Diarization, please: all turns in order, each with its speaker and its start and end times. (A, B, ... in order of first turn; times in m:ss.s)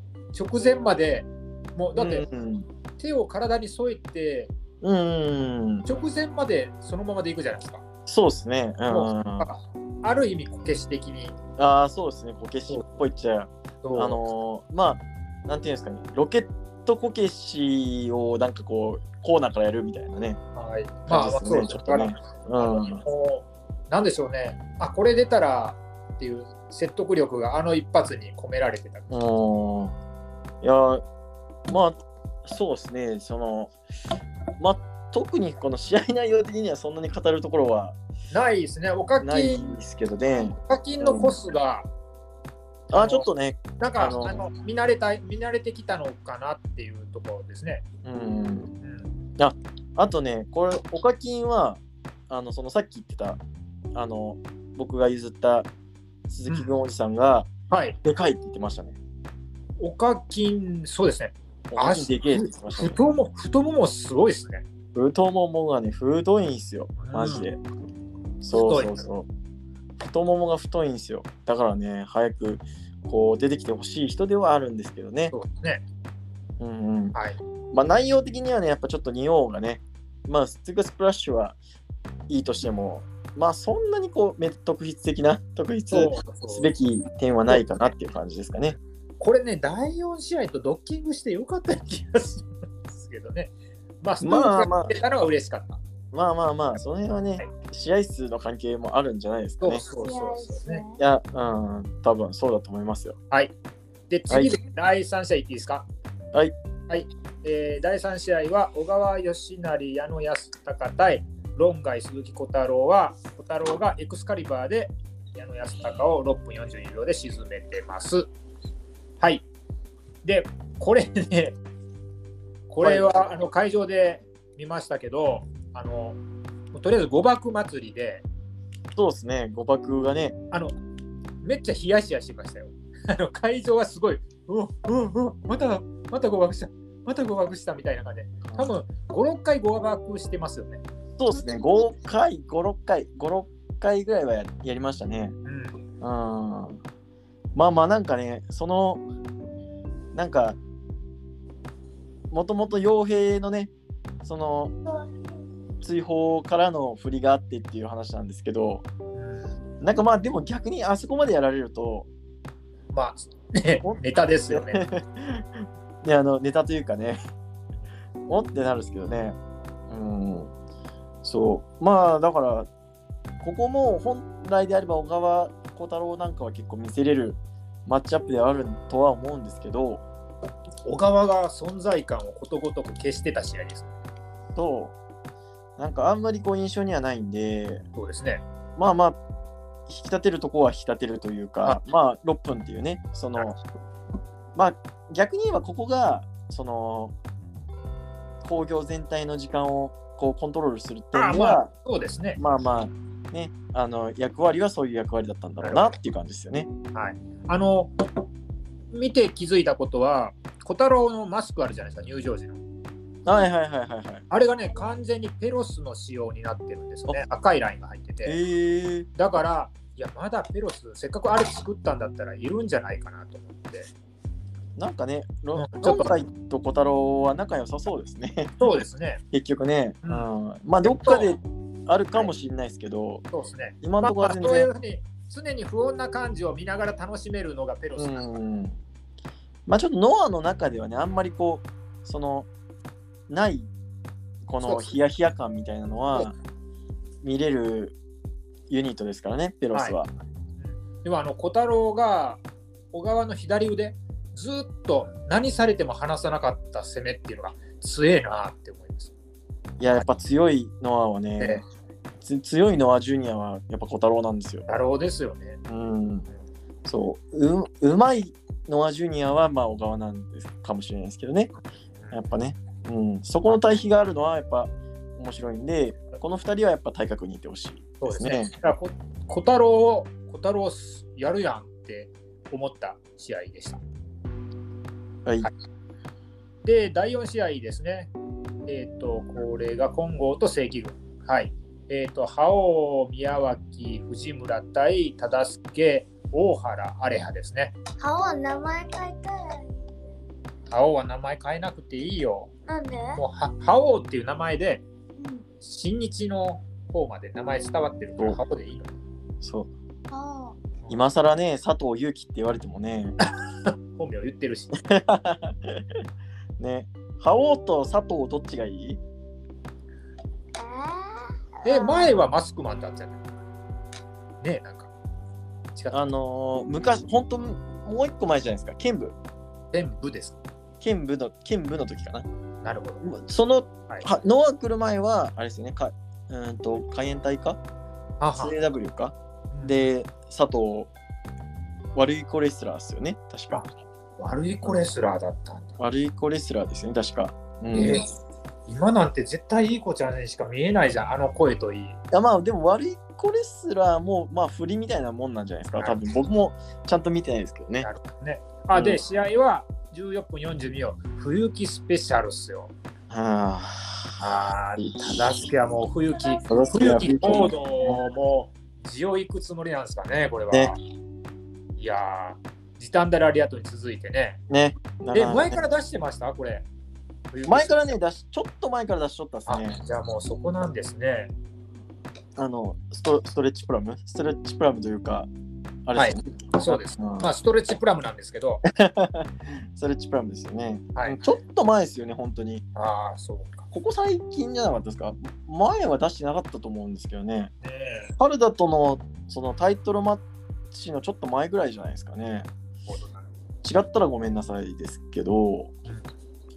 0:00.3-0:02.2 A
0:02.0-0:02.6 B
0:03.0-0:04.5 A
0:04.8-0:05.9 B
0:05.8-0:07.8 A
0:08.0-0:09.5 B
0:08.9-0:11.4 A
0:11.6-0:20.4 B
0:13.8-0:14.2 A
0:20.6-0:29.1 A
0:21.1-0:23.0 B
0:29.1-0:29.9 B
0:30.6-0:31.0 B
0:31.7-0:33.7 B
0:34.6-0:38.0 B
0:38.3-0:39.8 A
0:39.2-0:41.3 B
0:40.6-0:41.9 A
0:42.9-0:44.4 B
0:43.0-0:43.3 A
0:43.8-0:47.8 A
0:48.0-0:48.7 B
0:48.8-0:49.1 A
0:49.4-0:53.4 B
0:53.9-0:55.7 B
0:56.3-0:57.5 B
0:57.7-0:58.0 A
0:58.0-0:59.0 B
0:59.8-1:04.6 A
1:01.7-1:02.9 B
1:04.9-1:07.6 B
1:07.0-1:07.5 A
1:08.4-1:09.3 B
1:08.5-1:09.0 A
1:10.0-1:15.3 B
1:15.3-1:15.8 A
1:16.6-1:17.2 B
1:17.7-1:21.6 B
1:22.3-1:28.8 B
1:25.9-1:26.7 A
1:29.2-1:35.8 A
1:34.2-1:34.9 B
1:36.1-1:39.8 B
1:39.6-1:40.8 A
1:40.0-1:41.0 C
1:41.0-1:43.2 B
1:44.1-1:45.8 A
1:44.3-1:44.6 B
1:46.9-1:58.3 A
1:59.2-1:59.4 A
2:00.2-2:01.6 A
2:02.7-2:06.2 A
2:02.8-2:03.1 B
2:06.7-2:08.2 A
2:08.9-2:10.4 B
2:11.4-2:20.8 A
2:18.4-2:18.7 B
2:21.2-2:25.4 B
2:25.4-2:25.7 A
2:26.0-2:26.8 B
2:27.5-2:29.0 B
2:30.1-2:30.6 B
2:32.3-2:33.7 B
2:34.2-2:34.7 B
2:35.8-2:38.8 B
2:39.1-2:39.6 A
2:39.8-2:42.1 B
2:42.9-2:44.8 A
2:43.8-2:47.2 B
2:48.3-2:49.4 B
2:49.9-2:50.5 B
2:51.2-2:52.7 B
2:53.4-3:00.0 B
3:00.8-3:03.9 A
3:04.6-3:04.9 B
3:05.8-3:07.8 B
3:08.0-3:08.4 A
3:08.8-3:09.2 B
3:09.9-3:13.6 B
3:14.5-3:17.1 B
3:18.4-3:21.7 B
3:21.1-3:22.4 A
3:22.4-3:26.7 B
3:25.6-3:25.9 A
3:26.9-3:27.9 A
3:28.9-3:32.6 A
3:33.2-3:34.2 B
3:34.3-3:38.4 A
3:38.2-3:39.1 B
3:39.1-3:43.9 A
3:44.8-3:48.6 B
3:45.5-3:46.1 A
3:48.6-3:49.2 A
3:49.3-3:53.2 B
3:50.0-3:50.3 A
3:50.8-3:51.3 A
3:53.3-3:58.3 A
3:53.8-3:54.7 B
3:58.0-3:58.8 B
3:59.7-4:02.5 B
4:03.3-4:03.7 B
4:04.4-4:06.3 B
4:04.6-4:04.9 A
4:07.2-4:08.0 B
4:08.7-4:10.1 B
4:10.6-4:12.4 A
4:12.9-4:19.1 A
4:19.8-4:21.6 B
4:22.2-4:24.7 B
4:24.7-4:25.6 A
4:25.7-4:26.2 B
4:26.8-4:31.5 B
4:32.1-4:38.5 B
4:38.0-4:43.8 A
4:46.6-4:48.1 A
4:48.6-4:57.7 A
4:58.0-4:59.8 C
5:00.7-5:02.5 A
5:02.7-5:03.2 C
5:03.2-5:04.8 A
5:05.2-5:05.4 C
5:05.6-5:08.9 A
5:09.4-5:09.7 B
5:10.1-5:10.6 C
5:10.9-5:13.2 B
5:13.6-5:14.8 A
5:14.8-5:16.0 B
5:16.6-5:19.0 B
5:20.6-5:22.2 C
5:21.6-5:23.2 A
5:24.4-5:24.9 A
5:25.9-5:29.2 B
5:29.7-5:30.4 A
5:30.8-5:32.2 B
5:32.6-5:33.0 A
5:33.0-5:37.6 B
5:38.2-5:38.5 A
5:38.4-5:40.9 B
5:39.5-5:39.9 A
5:41.9-5:43.6 B
5:43.5-5:45.8 A
5:45.8-5:48.0 B
5:47.7-5:48.1 A
5:48.7-5:52.0 A
5:52.1-5:57.9 B
5:57.8-6:02.7 A
5:58.7-5:59.0 B
6:03.1-6:04.2 B
6:04.2-6:10.8 A
6:04.8-6:05.3 B
6:06.4-6:08.0 B
6:11.8-6:14.4 A
6:14.5-6:15.6 B
6:15.1-6:16.6 A
6:17.3-6:18.0 A
6:17.4-6:19.8 B
6:19.5-6:21.3 A
6:22.4-6:25.3 B
6:25.8-6:27.3 B
6:25.9-6:28.6 A
6:28.6-6:32.6 B
6:32.8-6:33.7 A
6:33.7-6:37.5 B
6:37.6-6:38.1 A
6:38.2-6:42.5 B
6:42.9-6:43.3 A
6:43.6-6:45.7 B